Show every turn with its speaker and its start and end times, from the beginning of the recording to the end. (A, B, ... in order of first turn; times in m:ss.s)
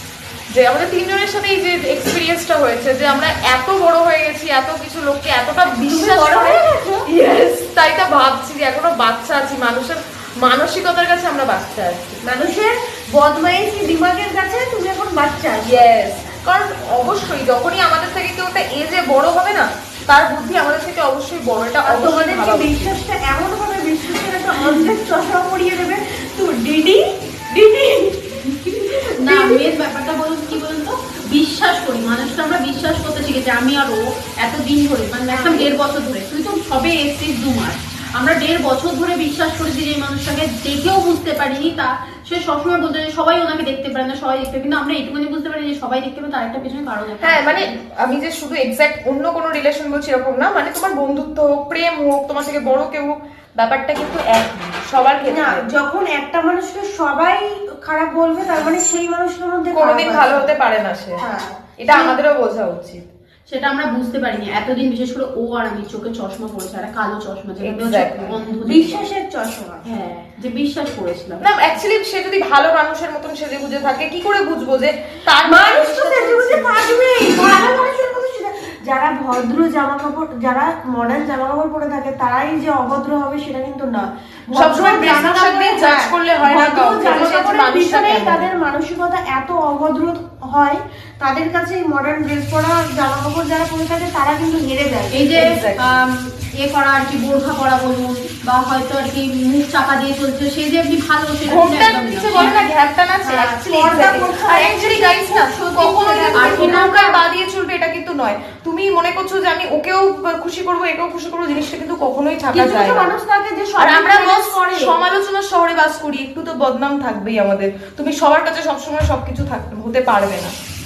0:00.5-0:12.2 A
0:05.8-0:07.0 B
0:12.2-0:15.8 B
0:15.6-0:22.9 A
0:21.8-0:29.6 B
0:24.5-0:24.9 C
0:29.2-0:47.7 C
0:35.3-0:35.7 B
0:47.2-0:55.6 A
0:55.3-1:00.5 B
0:59.7-1:01.2 A
1:01.2-1:02.2 B
1:01.8-1:03.0 A
1:03.5-1:09.1 C
1:07.6-1:08.4 A
1:08.6-1:09.8 B
1:09.8-1:11.4 C
1:11.4-1:16.7 A
1:15.4-1:35.3 B
1:24.5-1:28.5 A
1:35.1-1:42.7 C
1:35.3-1:36.0 A
1:41.5-1:53.1 A
1:43.2-1:47.1 B
1:46.3-1:47.1 C
1:52.5-1:55.0 B
1:53.8-2:00.5 A